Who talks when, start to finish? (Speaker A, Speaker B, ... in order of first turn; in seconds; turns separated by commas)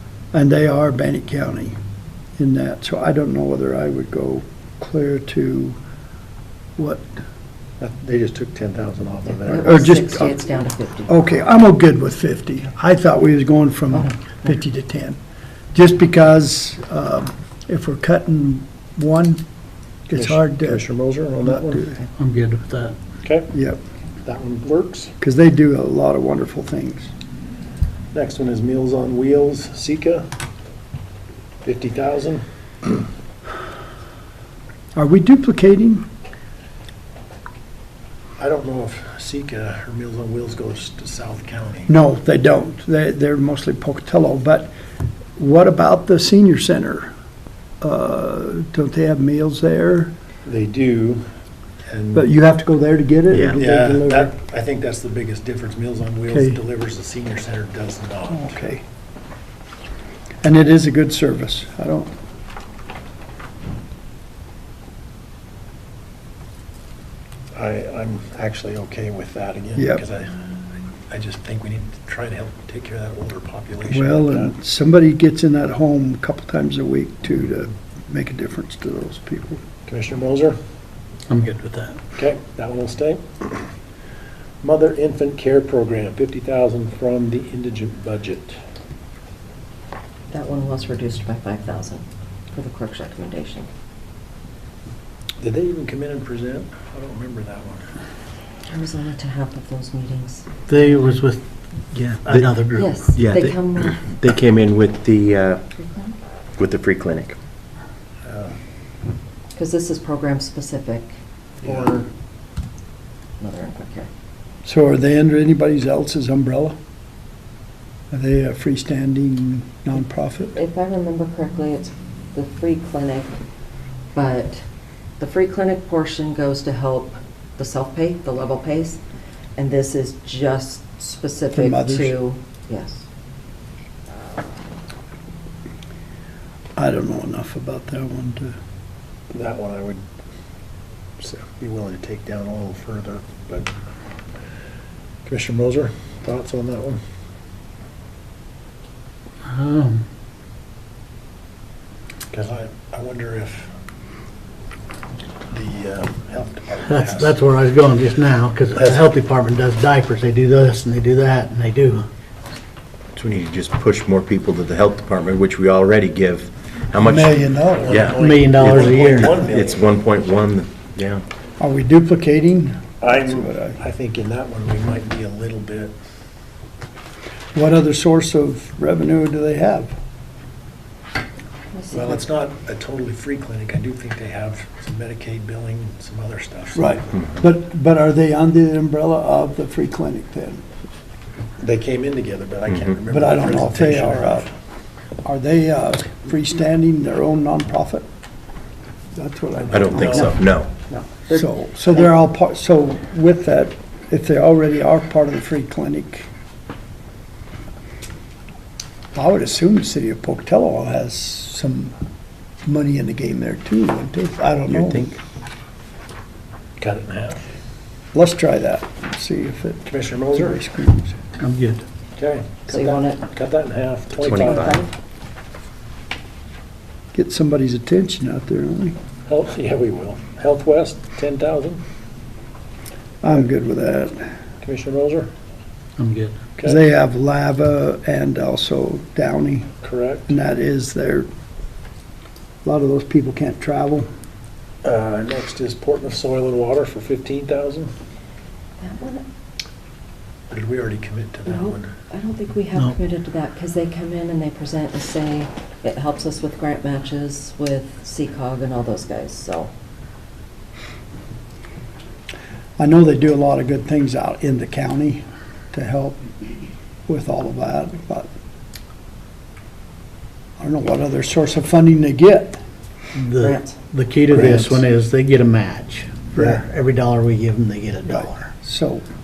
Speaker A: 0.3-1.8, Speaker A: 2.4-5.8, Speaker A: 6.8-7.1, Speaker B: 7.8-9.9, Speaker C: 9.5-11.2, Speaker A: 9.5-10.4, Speaker A: 11.1-15.2, Speaker A: 15.7-19.4, Speaker A: 20.1-20.8, Speaker B: 20.1-21.9, Speaker A: 21.4-22.0, Speaker D: 22.2-23.0, Speaker B: 23.2-23.5, Speaker A: 23.5-23.8, Speaker B: 24.2-25.1, Speaker A: 25.2-27.1, Speaker B: 28.1-30.3, Speaker B: 31.6-32.9, Speaker A: 35.0-36.1, Speaker B: 38.4-41.9, Speaker A: 41.9-44.7, Speaker A: 45.4-47.1, Speaker A: 47.8-50.1, Speaker B: 50.5-51.2, Speaker B: 51.9-52.3, Speaker A: 52.1-54.3, Speaker E: 53.3-53.6, Speaker B: 53.5-58.7, Speaker A: 56.3-56.6, Speaker A: 58.3-58.8, Speaker A: 60.4-62.1, Speaker B: 67.5-70.6, Speaker A: 69.8-70.0, Speaker B: 71.1-74.5, Speaker A: 73.9-79.6, Speaker B: 79.9-80.6, Speaker D: 81.3-82.1, Speaker B: 82.2-83.5, Speaker B: 84.6-88.6, Speaker C: 90.3-93.7, Speaker B: 95.4-97.9, Speaker C: 98.7-100.5, Speaker D: 100.7-101.5, Speaker E: 101.9-102.5, Speaker D: 102.2-102.9, Speaker C: 102.8-104.1, Speaker E: 103.1-105.7, Speaker C: 105.8-106.2, Speaker E: 106.6-107.4, Speaker B: 108.3-108.6, Speaker C: 109.5-112.1, Speaker C: 113.4-114.1, Speaker A: 114.7-116.8, Speaker A: 118.1-120.6, Speaker C: 120.5-123.4, Speaker C: 124.1-124.6, Speaker C: 125.2-129.0, Speaker C: 129.6-133.0, Speaker A: 131.5-132.2, Speaker A: 136.8-138.6, Speaker B: 139.3-140.0, Speaker B: 141.2-143.7, Speaker B: 145.2-147.0, Speaker D: 149.5-150.0, Speaker B: 152.3-153.7, Speaker B: 155.5-157.4, Speaker D: 156.8-162.1, Speaker B: 158.8-159.1, Speaker E: 163.2-171.2, Speaker A: 167.0-168.1, Speaker B: 167.7-169.8, Speaker D: 168.2-169.4, Speaker A: 171.6-173.8, Speaker B: 173.0-175.9, Speaker A: 177.5-179.9, Speaker C: 181.7-182.2, Speaker B: 181.9-187.0, Speaker A: 186.8-190.7, Speaker B: 191.6-194.4, Speaker E: 192.7-193.0, Speaker A: 193.1-194.5, Speaker A: 195.2-198.1, Speaker A: 199.2-200.4, Speaker E: 199.7-200.7, Speaker B: 199.9-200.4, Speaker C: 201.2-202.1, Speaker A: 201.3-206.3, Speaker A: 209.1-211.9, Speaker A: 212.7-215.2, Speaker E: 214.7-215.1, Speaker B: 216.8-217.4, Speaker A: 218.1-221.2, Speaker B: 219.9-220.6, Speaker D: 221.4-221.8, Speaker B: 222.2-224.8, Speaker C: 222.7-223.2, Speaker E: 224.2-224.9, Speaker C: 224.3-224.9, Speaker A: 227.1-229.0, Speaker B: 229.3-231.8, Speaker A: 233.2-234.3, Speaker B: 234.6-235.3, Speaker D: 236.0-236.5, Speaker A: 236.6-239.8, Speaker B: 239.8-240.3, Speaker A: 240.3-241.3, Speaker A: 242.6-244.1, Speaker B: 244.8-247.9, Speaker C: 248.8-249.2, Speaker B: 250.5-251.9, Speaker C: 251.5-259.7, Speaker A: 262.8-266.3, Speaker A: 267.1-268.3, Speaker A: 270.6-272.6, Speaker D: 273.1-278.6, Speaker C: 273.4-273.8, Speaker A: 274.3-274.8, Speaker A: 276.4-276.6, Speaker A: 278.1-279.0